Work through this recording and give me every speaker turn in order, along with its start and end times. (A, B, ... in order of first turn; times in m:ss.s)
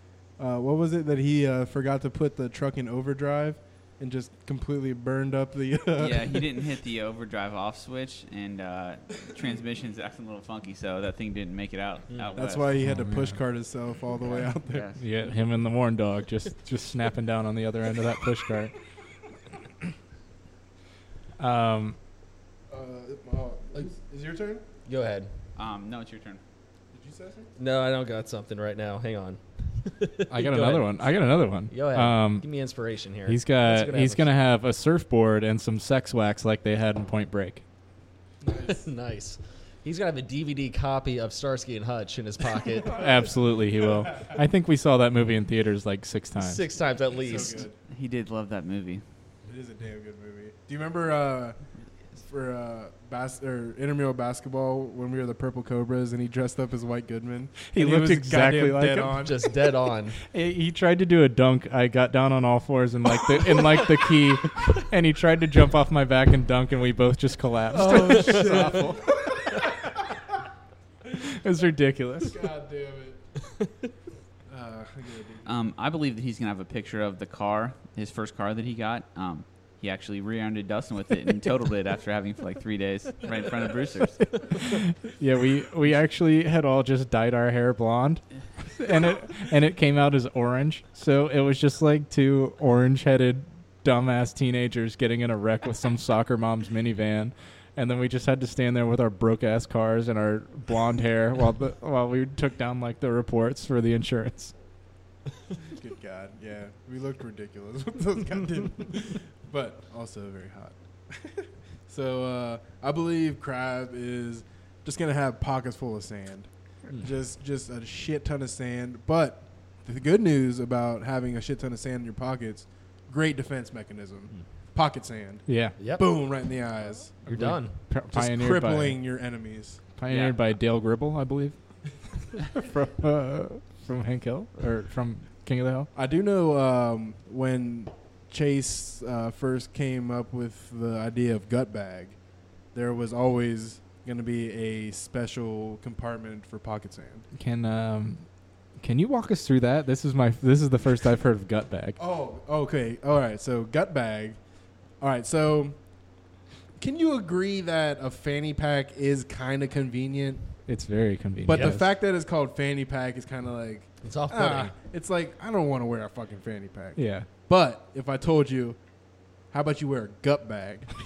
0:00.4-0:06.5 A
0:06.0-0:12.6 B
0:12.1-0:12.4 C
0:12.4-0:14.9 A
0:12.8-0:13.4 D
0:14.2-0:15.0 B
0:15.0-0:18.8 D
0:21.4-0:22.0 D
0:22.7-0:24.6 A
0:24.9-0:25.3 C
0:25.6-0:26.4 B
0:26.9-0:27.5 A
0:27.6-0:30.9 C
0:30.3-0:32.4 D
0:31.7-0:34.3 C
0:33.3-0:37.6 D
0:38.4-0:38.8 A
0:38.5-0:43.3 C
0:42.9-0:46.6 D
0:46.4-0:47.6 C
0:47.2-0:47.8 A
0:47.9-0:49.0 B
0:49.5-0:51.6 A
0:52.2-0:59.4 A
0:57.7-0:59.2 D
0:59.1-1:00.2 C
1:00.3-1:08.9 D
1:07.7-1:09.8 A
1:08.0-1:08.6 C
1:11.3-1:12.4 D
1:12.2-1:13.2 A
1:14.5-1:15.5 A
1:15.4-1:24.4 B
1:24.6-1:44.5 D
1:45.7-2:07.3 A
2:05.5-2:05.8 D
2:05.8-2:06.0 C
2:07.2-2:07.8 C
2:07.3-2:09.0 D
2:08.1-2:09.8 A
2:10.0-2:11.6 D
2:10.1-2:10.4 B
2:12.4-2:15.9 D
2:15.9-2:22.2 A
2:22.7-2:27.3 A
2:27.3-2:28.2 D
2:28.8-2:32.0 D
2:32.0-2:34.4 A
2:35.0-2:35.8 A
2:36.8-2:40.4 A
2:40.7-2:41.9 D
2:41.5-2:48.8 A
2:41.5-2:41.8 C
2:44.0-2:44.8 C
2:47.0-2:47.3 D
2:49.5-2:50.9 A